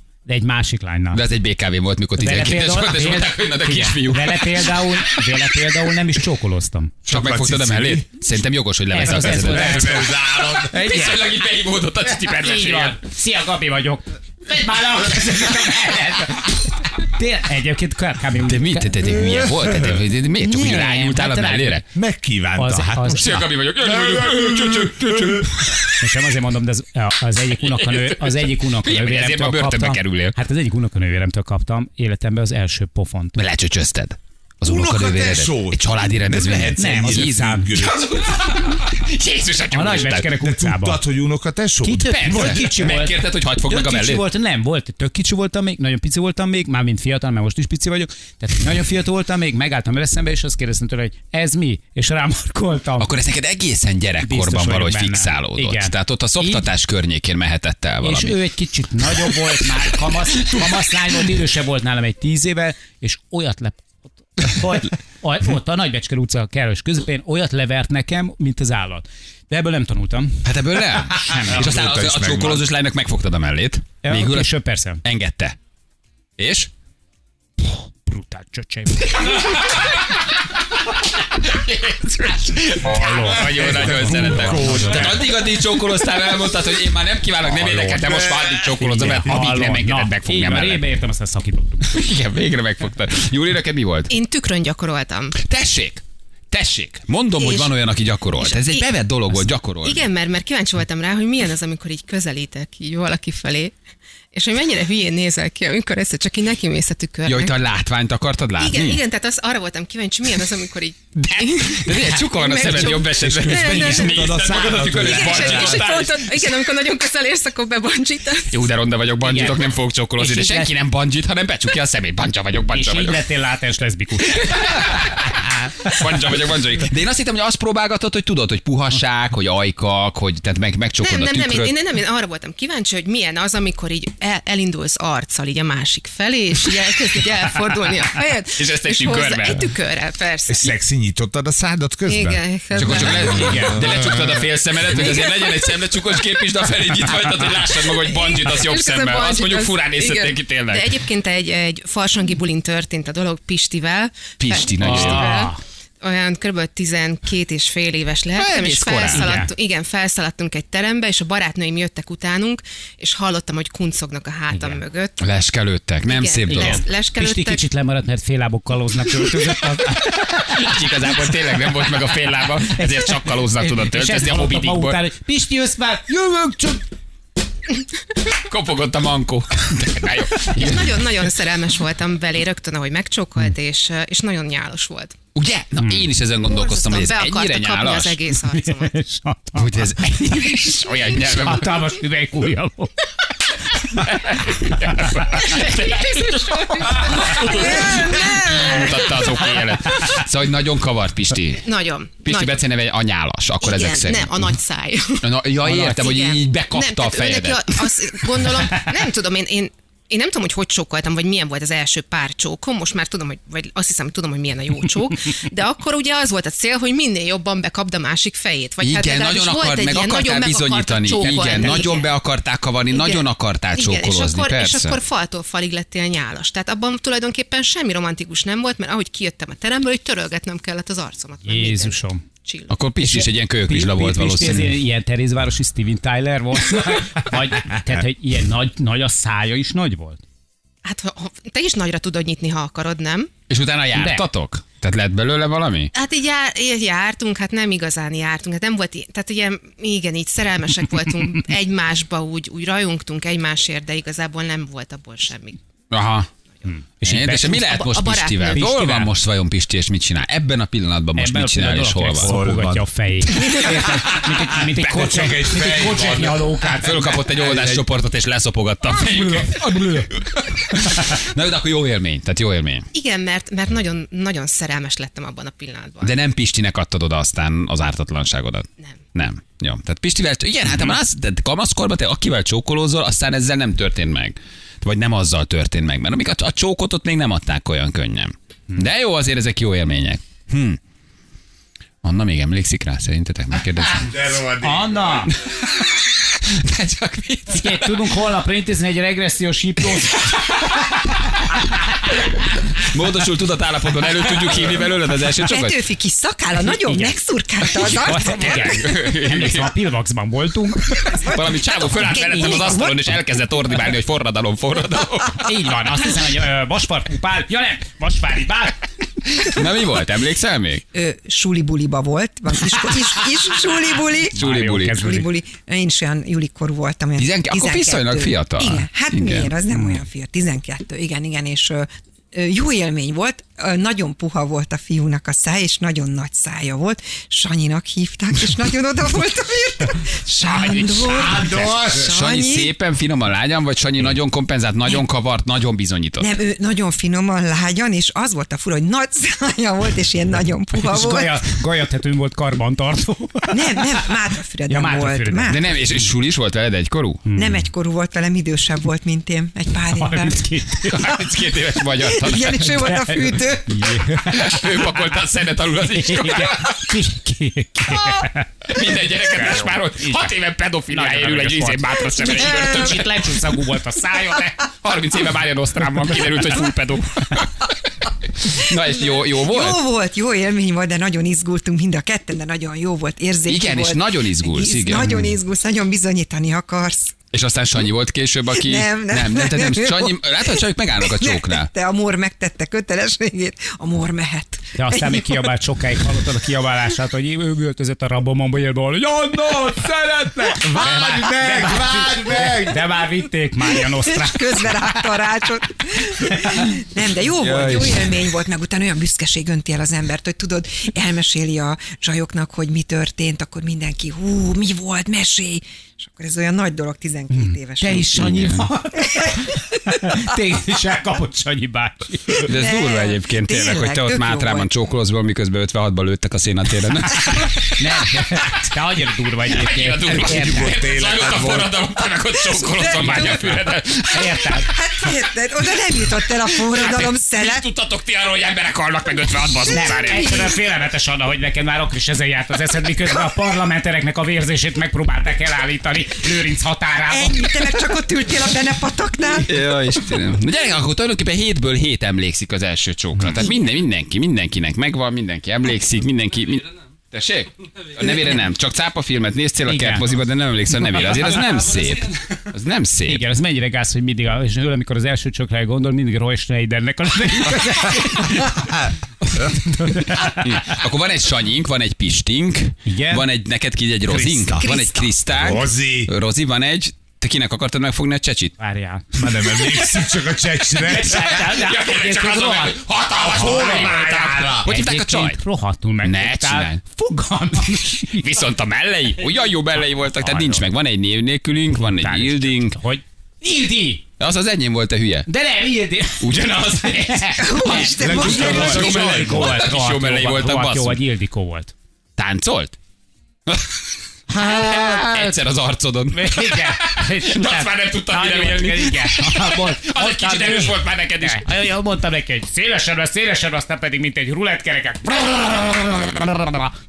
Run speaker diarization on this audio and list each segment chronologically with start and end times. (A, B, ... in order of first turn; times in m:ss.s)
0:00.3-0:01.2 A
0:01.1-0:04.8 B
0:02.2-0:07.0 A
0:07.1-0:08.1 C
0:07.1-0:13.0 B
0:08.9-0:10.1 A
0:09.1-0:10.9 C
0:10.7-0:11.2 A
0:12.3-0:18.9 A
0:18.4-0:21.8 B
0:19.1-0:20.0 C
0:20.4-0:21.8 A
0:21.9-0:25.5 C
0:22.6-0:23.5 A
0:23.1-0:26.0 B
0:26.0-0:33.4 A
0:27.7-0:30.4 B
0:33.4-0:40.3 B
0:34.6-0:38.3 C
0:36.8-0:37.7 A
0:39.7-0:41.0 A
0:40.4-0:42.9 C
0:41.8-0:53.1 A
0:42.1-0:44.2 B
0:53.0-0:58.4 B
0:54.2-0:56.7 A
0:58.0-1:10.5 A
1:00.4-1:00.6 B
1:10.4-1:15.6 B
1:11.1-1:11.6 A
1:11.3-1:12.7 C
1:14.0-1:15.0 A
1:16.4-1:16.7 B
1:17.6-1:19.6 A
1:19.2-1:20.1 B
1:21.3-1:30.8 B
1:22.8-1:25.2 A
1:23.2-1:25.5 C
1:27.6-1:28.7 C
1:28.8-1:32.0 A
1:31.9-1:34.1 B
1:34.1-1:35.4 D
1:35.4-1:40.0 B
1:37.4-1:37.7 D
1:38.4-1:38.9 D
1:39.8-1:43.8 D
1:44.3-1:47.6 D
1:47.3-1:49.0 B
1:48.6-1:58.7 D
1:51.2-1:56.5 B
1:52.9-1:56.0 C
1:58.5-2:03.2 B
1:59.2-1:59.6 A
2:00.2-2:00.7 A
2:02.7-2:06.0 A
2:04.3-2:11.7 B
2:11.0-2:20.7 D
2:18.5-2:19.7 B
2:20.5-2:24.4 C
2:22.1-2:23.7 D
2:22.8-2:31.0 B
2:23.3-2:23.8 A
2:25.0-2:25.6 D
2:28.0-2:45.2 D
2:34.4-2:35.3 B
2:34.8-2:35.6 A
2:38.4-2:39.4 B
2:39.1-2:39.5 A
2:45.2-2:46.8 B
2:46.1-2:47.6 D
2:46.5-2:50.6 A
2:49.9-2:55.0 B
2:52.7-2:56.8 A
2:58.4-3:01.0 B
3:00.5-3:05.2 D
3:05.4-3:08.2 B
3:06.4-3:09.0 D
3:08.5-3:10.1 A
3:09.6-3:11.9 B
3:11.2-3:12.9 A
3:13.9-3:21.7 B
3:14.7-3:15.5 A
3:15.5-3:18.8 D
3:21.6-3:22.6 D
3:22.2-3:24.6 B
3:23.6-3:42.1 D
3:25.2-3:28.3 B
3:38.8-3:45.0 B
3:41.2-3:41.9 A
3:42.9-3:52.8 D
3:51.4-3:52.2 A
3:52.7-3:54.8 B
3:53.0-4:00.2 A
4:00.8-4:03.3 D
4:03.5-4:05.9 B
4:04.0-4:04.2 A
4:05.9-4:15.6 D
4:15.9-4:16.3 B
4:16.6-4:17.8 A
4:17.0-4:22.3 B
4:17.6-4:18.6 D
4:18.5-4:19.1 A
4:21.2-4:27.2 A
4:22.2-4:22.8 C
4:24.7-4:26.5 C
4:24.8-4:25.8 B
4:26.8-4:32.9 B
4:27.2-4:27.8 C
4:29.4-4:30.1 A
4:32.9-4:36.1 D
4:36.0-4:50.8 B
4:52.0-4:54.2 B
4:53.9-4:55.3 C
4:54.6-4:55.3 A
4:55.5-4:58.1 B
4:57.5-5:00.3 A
5:00.1-5:00.9 B
5:02.8-5:05.8 B
5:05.3-5:08.8 E
5:06.8-5:07.2 A
5:07.8-5:09.7 B
5:07.8-5:11.0 A
5:10.9-5:13.0 E
5:11.0-5:15.5 B
5:12.2-5:12.7 A
5:15.4-5:18.8 A
5:19.4-5:20.8 B
5:20.9-5:42.7 E
5:24.3-5:25.3 A
5:24.4-5:25.1 B
5:27.2-5:29.5 B
5:29.7-5:30.0 A
5:40.4-5:46.3 B
5:41.2-5:42.1 C
5:46.2-5:51.4 E
5:50.7-5:54.0 A
5:53.5-5:55.7 E
5:54.7-5:55.6 A
5:55.5-5:57.2 B
5:57.3-5:57.6 A
5:57.3-6:00.5 E
5:59.9-6:01.2 A
6:00.8-6:02.8 B
6:02.0-6:03.8 E
6:02.7-6:05.1 A
6:04.2-6:06.9 B
6:05.8-6:10.3 A
6:08.7-6:13.3 B
6:10.9-6:14.6 A
6:12.2-6:13.0 E
6:14.6-6:17.7 B
6:18.4-6:19.8 B
6:18.7-6:27.2 E
6:23.5-6:25.4 B
6:27.3-6:31.7 B
6:28.5-6:35.5 E
6:34.8-6:45.0 A
6:40.6-6:42.9 C
6:44.0-6:58.3 E
6:46.2-6:46.7 A
6:47.6-6:48.0 B
6:57.3-7:02.4 A
6:58.2-6:58.7 B
6:59.0-7:00.2 E
7:02.4-7:04.7 E
7:02.4-7:07.7 B
7:07.3-7:10.8 A
7:09.5-7:14.3 B
7:10.1-7:11.8 C
7:12.4-7:13.6 E
7:13.0-7:13.6 A
7:14.1-7:14.7 A
7:14.6-7:17.7 E
7:16.6-7:20.5 B
7:19.7-7:27.6 A
7:19.8-7:20.6 E
7:27.1-7:29.6 E
7:29.4-7:43.2 B
7:39.7-7:40.1 A
7:40.8-7:41.5 A
7:43.1-7:48.7 A
7:49.7-7:50.6 A
7:50.0-7:58.6 B
7:52.9-7:53.3 A
7:54.1-7:54.7 C
7:54.6-7:55.1 E
7:55.3-7:56.1 C
7:58.6-7:59.1 A
7:59.1-8:01.2 C
8:00.8-8:02.8 A
8:00.9-8:05.4 B
8:03.2-8:04.7 C
8:03.3-8:08.3 A
8:06.0-8:06.8 B
8:07.7-8:12.8 B
8:10.1-8:10.6 A
8:11.8-8:14.0 A
8:14.2-8:15.3 B
8:15.3-8:21.7 A
8:16.2-8:21.0 B
8:17.4-8:18.9 E
8:18.0-8:19.6 C
8:22.2-8:22.8 B
8:23.5-8:23.8 B
8:24.3-8:25.4 A
8:24.4-8:31.6 B
8:26.1-8:36.7 A